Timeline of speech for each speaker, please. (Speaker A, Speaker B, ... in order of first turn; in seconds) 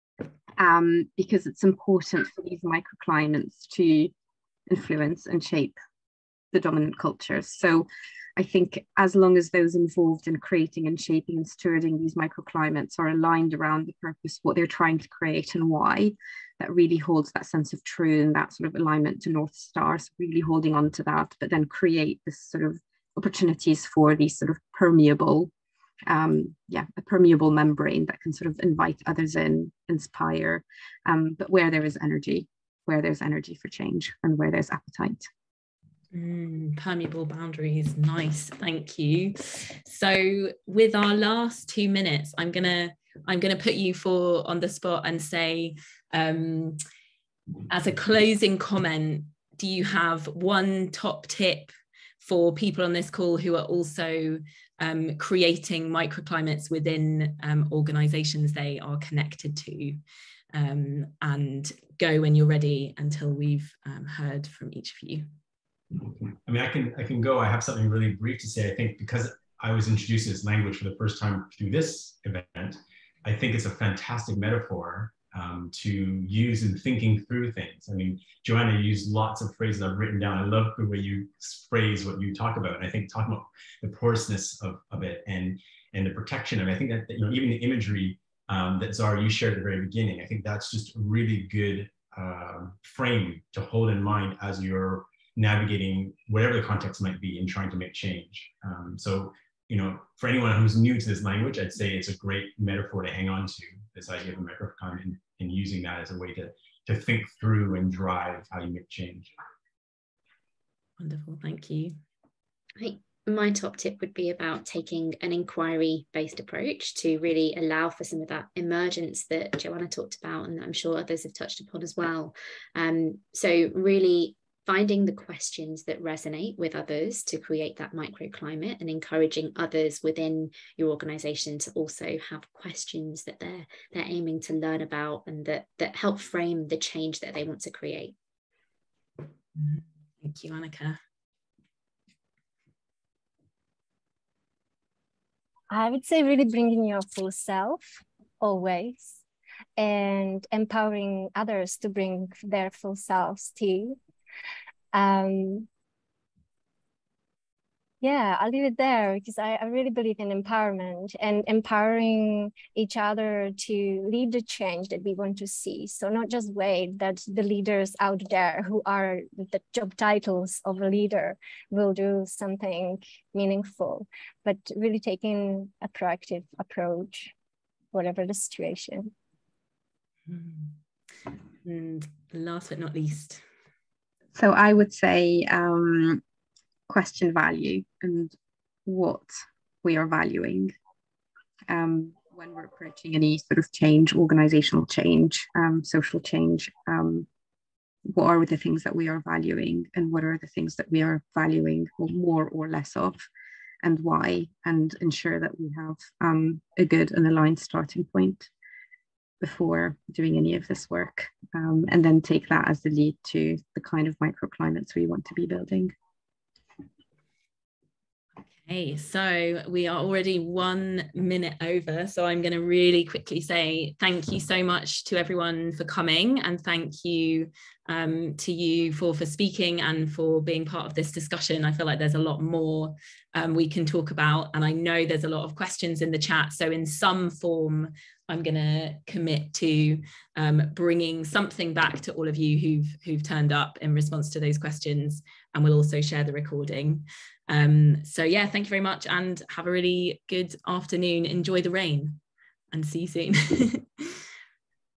Speaker A: 0.6-4.1, 4.7-5.8, 6.5-7.9, 8.4-25.5, 26.1-35.3, 184.3-186.2, 186.9-188.3, 188.9-190.7, 191.7-197.3, 198.1-203.2, 203.8-208.5, 209.4-215.9
Speaker B: 36.1-46.8, 47.7-60.0, 60.5-65.3, 111.0-112.0, 139.6-141.0, 180.3-180.7, 181.6-183.4, 218.7-252.2, 252.7-254.2
Speaker C: 66.0-109.3
Speaker D: 112.8-138.2
Speaker E: 145.7-149.2, 149.8-154.0, 154.9-155.7, 158.0-177.3, 177.9-179.1